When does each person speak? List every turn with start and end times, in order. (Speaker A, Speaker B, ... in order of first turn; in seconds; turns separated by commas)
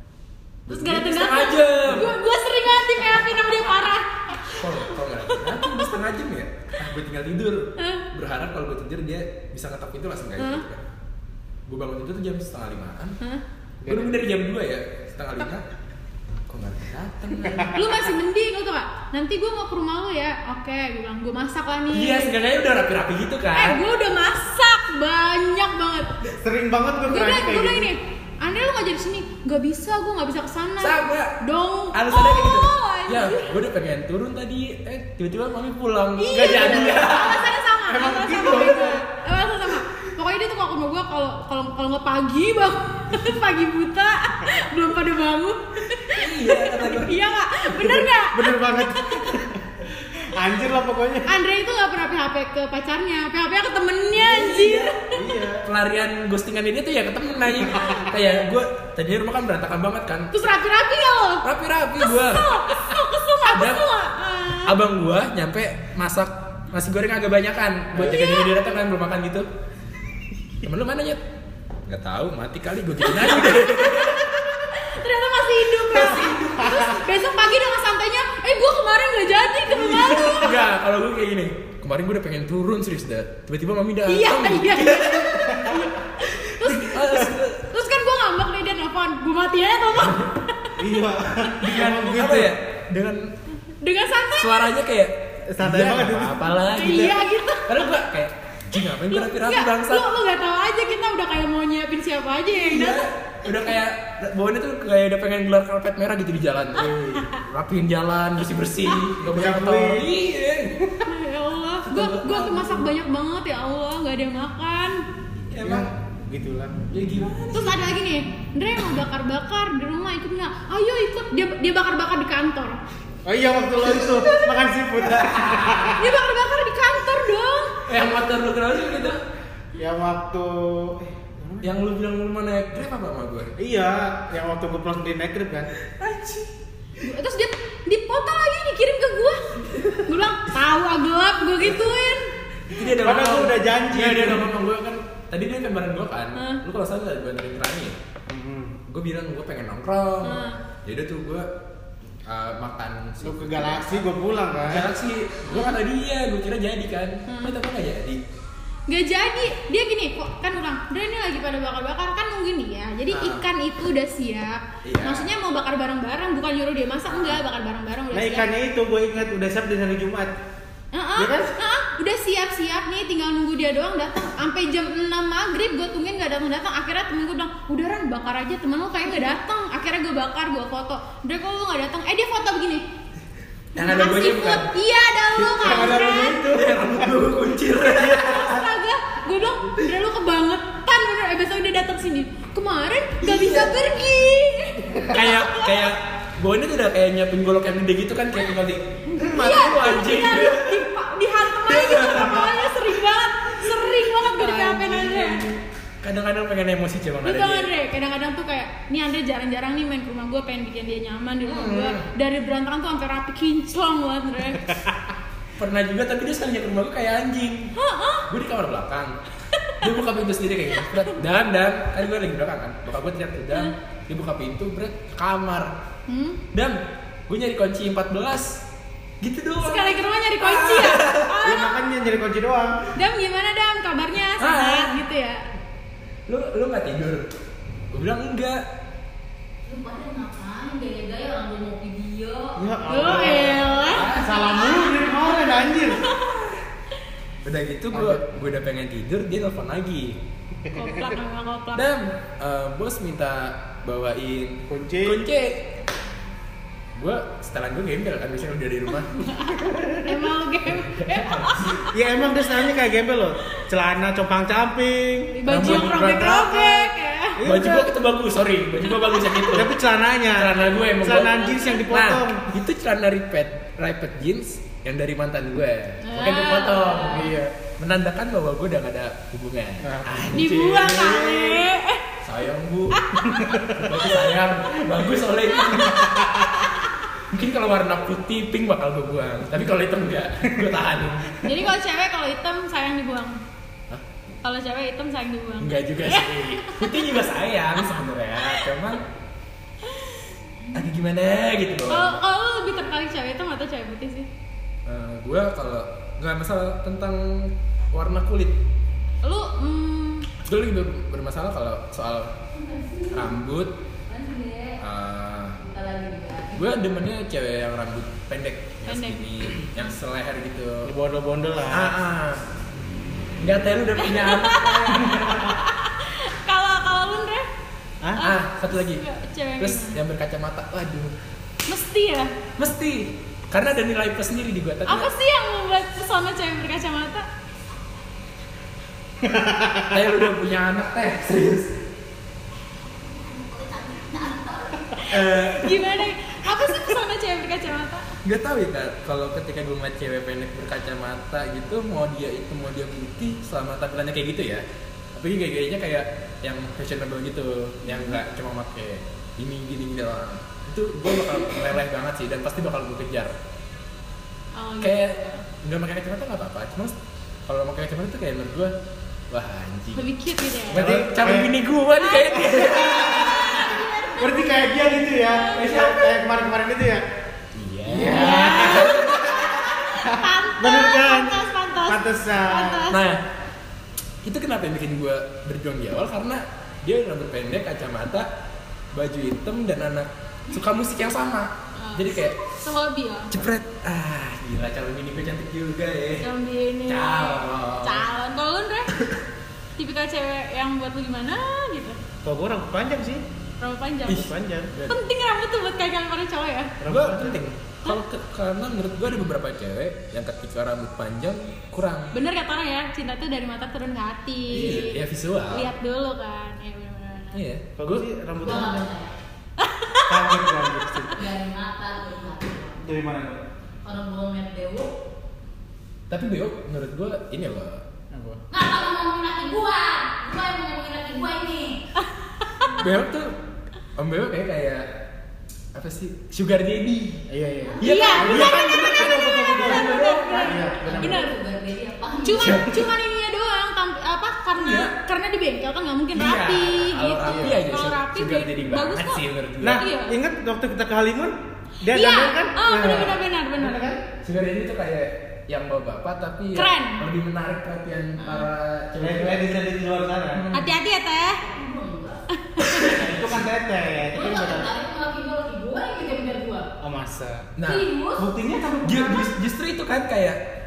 Speaker A: 0.7-2.1, Speaker B: 0.7-5.9, Speaker A: 4.6-10.8, Speaker B: 7.8-8.1, Speaker B: 10.4-10.7, Speaker A: 11.7-13.2, Speaker C: 13.8-14.2, Speaker A: 13.9-15.7, Speaker A: 16.5-18.0, Speaker B: 17.7-22.3, Speaker A: 21.9-23.8, Speaker B: 23.5-26.2, Speaker C: 26.2-27.9, Speaker B: 27.1-33.5, Speaker A: 30.8-31.4, Speaker A: 31.9-37.5, Speaker B: 36.2-49.4, Speaker C: 36.3-37.2, Speaker C: 37.9-39.0, Speaker A: 46.1-47.2, Speaker C: 47.8-51.3, Speaker B: 51.3-55.1, Speaker A: 54.1-55.0, Speaker C: 55.1-55.6, Speaker A: 55.6-60.5, Speaker B: 60.3-61.5, Speaker A: 61.4-63.8, Speaker B: 62.0-64.8, Speaker A: 64.6-69.5, Speaker B: 68.1-68.5, Speaker A: 70.6-71.2, Speaker A: 71.9-74.6, Speaker B: 73.1-80.6, Speaker A: 75.9-77.0, Speaker A: 79.7-85.8, Speaker B: 84.1-90.8, Speaker A: 86.5-87.7, Speaker C: 90.8-92.5, Speaker A: 91.6-93.3, Speaker B: 93.8-94.7, Speaker A: 94.4-100.1, Speaker C: 95.5-96.4, Speaker B: 96.6-97.8, Speaker B: 99.1-103.0, Speaker A: 102.5-110.9, Speaker C: 106.8-107.2, Speaker B: 107.0-107.4, Speaker C: 109.2-110.1, Speaker B: 111.0-115.0, Speaker A: 111.8-112.9, Speaker A: 115.5-115.9, Speaker C: 115.6-116.8, Speaker A: 116.9-117.8, Speaker B: 117.5-122.8, Speaker C: 123.3-126.0, Speaker B: 123.8-124.8, Speaker A: 125.0-126.0, Speaker B: 126.0-127.8, Speaker A: 127.9-129.2, Speaker C: 129.8-131.8, Speaker A: 131.6-133.5, Speaker C: 133.6-135.7, Speaker A: 136.0-136.5, Speaker B: 137.0-142.3, Speaker A: 139.6-140.2, Speaker A: 142.7-148.0, Speaker C: 143.0-144.5, Speaker B: 146.3-146.6, Speaker C: 148.3-148.8, Speaker A: 148.9-151.5, Speaker B: 150.2-150.6, Speaker A: 152.2-154.1, Speaker C: 153.2-154.9, Speaker A: 154.6-158.2, Speaker B: 155.5-155.8, Speaker B: 157.3-157.6, Speaker B: 158.9-168.5, Speaker A: 163.1-163.4, Speaker A: 164.8-165.3, Speaker A: 167.1-167.4, Speaker C: 168.1-170.3, Speaker B: 170.9-182.8, Speaker C: 171.2-171.5, Speaker A: 183.8-184.7, Speaker B: 183.8-186.4, Speaker A: 185.3-188.7, Speaker C: 185.6-187.1, Speaker C: 187.8-188.4, Speaker B: 188.2-195.9, Speaker A: 193.2-193.8, Speaker A: 195.1-200.9, Speaker B: 199.1-205.4, Speaker A: 201.6-202.8, Speaker A: 203.7-207.7, Speaker B: 207.2-214.8, Speaker A: 211.4-212.1, Speaker A: 215.6-217.7, Speaker B: 217.8-218.3, Speaker A: 218.3-219.2, Speaker B: 219.6-219.8, Speaker A: 219.8-225.7, Speaker B: 220.8-221.1, Speaker B: 226.1-226.4, Speaker A: 226.5-228.6, Speaker A: 229.2-231.3, Speaker B: 229.6-231.8, Speaker C: 231.4-232.8, Speaker B: 232.9-235.4, Speaker A: 234.4-234.9, Speaker A: 236.3-237.3, Speaker A: 237.9-238.6, Speaker D: 239.7-242.6, Speaker C: 242.6-246.0, Speaker B: 242.9-246.4, Speaker A: 243.8-244.4, Speaker A: 246.2-246.6, Speaker A: 247.4-250.2, Speaker C: 247.9-248.2, Speaker C: 250.7-251.2, Speaker B: 250.7-251.9, Speaker A: 251.7-255.8, Speaker C: 254.7-255.2, Speaker A: 257.0-259.1, Speaker B: 259.1-262.7, Speaker C: 259.7-260.0, Speaker A: 260.7-261.9, Speaker C: 261.9-266.3, Speaker B: 265.4-267.4, Speaker A: 265.5-266.8, Speaker C: 267.4-267.9, Speaker A: 267.4-269.8, Speaker B: 268.9-269.6, Speaker C: 269.5-272.5, Speaker A: 270.3-281.4, Speaker B: 271.1-271.9, Speaker B: 276.0-277.3, Speaker C: 277.1-277.5, Speaker C: 279.8-280.2, Speaker B: 280.3-282.1, Speaker C: 281.0-281.6, Speaker A: 282.2-291.4, Speaker B: 282.9-284.3, Speaker C: 283.4-283.8, Speaker B: 285.5-286.9, Speaker B: 291.4-293.4, Speaker B: 294.4-297.2, Speaker A: 295.6-299.0, Speaker B: 298.4-298.7, Speaker B: 299.9-300.3, Speaker A: 300.7-302.1, Speaker B: 301.9-304.3, Speaker A: 304.9-308.6, Speaker B: 309.2-310.3, Speaker A: 310.4-312.4, Speaker D: 312.5-313.4, Speaker A: 313.1-313.7, Speaker D: 314.1-314.8, Speaker A: 314.8-315.6, Speaker D: 315.6-316.7, Speaker A: 316.5-320.9, Speaker B: 318.9-319.3, Speaker C: 320.8-321.9, Speaker A: 321.7-322.4, Speaker A: 323.4-325.6, Speaker B: 324.0-327.5, Speaker B: 328.2-330.0, Speaker A: 328.2-329.0, Speaker A: 329.6-331.1, Speaker B: 331.7-332.3, Speaker A: 332.6-335.1, Speaker B: 334.9-337.3, Speaker C: 339.2-339.9, Speaker A: 339.9-341.8, Speaker D: 343.0-345.2, Speaker A: 345.1-345.8, Speaker B: 345.1-348.1, Speaker A: 348.2-363.4, Speaker B: 357.9-358.2, Speaker B: 364.6-365.4, Speaker A: 364.8-368.7, Speaker A: 369.3-370.1, Speaker B: 369.9-370.9, Speaker A: 370.7-373.8, Speaker C: 370.7-371.5, Speaker B: 372.0-375.7, Speaker C: 372.8-373.5, Speaker C: 374.2-377.0, Speaker A: 375.5-376.2, Speaker A: 377.6-379.6, Speaker C: 377.9-379.0, Speaker B: 378.0-383.0, Speaker C: 380.0-382.9, Speaker A: 382.9-383.2, Speaker A: 384.2-388.3, Speaker A: 388.9-392.4, Speaker B: 391.8-393.3, Speaker A: 393.3-396.3, Speaker B: 396.2-399.0, Speaker A: 396.9-398.1, Speaker B: 399.8-402.0, Speaker C: 402.2-403.2, Speaker B: 403.6-404.3, Speaker C: 404.1-404.7, Speaker A: 404.1-405.0, Speaker B: 404.9-406.7, Speaker C: 406.8-407.4, Speaker A: 406.8-412.1, Speaker B: 412.1-415.0, Speaker A: 414.5-415.7, Speaker B: 415.5-417.4, Speaker A: 417.3-418.1, Speaker C: 417.8-418.9, Speaker D: 418.4-419.1, Speaker B: 419.6-420.4, Speaker C: 420.1-421.2, Speaker D: 421.1-422.8, Speaker C: 422.8-423.4, Speaker D: 423.8-424.9, Speaker A: 426.1-427.8, Speaker C: 428.1-428.4, Speaker D: 428.5-431.8, Speaker A: 432.8-433.3, Speaker A: 434.0-434.9, Speaker A: 435.7-437.2, Speaker C: 437.3-441.3, Speaker D: 437.6-437.9, Speaker A: 437.8-440.6, Speaker B: 437.8-441.3, Speaker D: 440.0-442.7, Speaker B: 442.2-450.1, Speaker A: 442.4-442.9, Speaker A: 444.6-444.9, Speaker A: 446.1-449.9, Speaker C: 447.3-447.6, Speaker C: 449.6-454.0, Speaker B: 451.9-453.9, Speaker A: 454.2-459.5, Speaker B: 456.5-457.0, Speaker D: 458.2-458.5, Speaker C: 459.0-460.4, Speaker A: 460.3-460.7, Speaker B: 460.5-461.4, Speaker D: 461.4-462.2, Speaker B: 462.5-462.9, Speaker A: 462.7-463.2, Speaker C: 462.8-464.7, Speaker D: 464.1-466.7, Speaker C: 466.8-467.5, Speaker A: 467.6-467.9, Speaker D: 467.6-468.3, Speaker C: 468.2-469.3, Speaker A: 468.8-470.4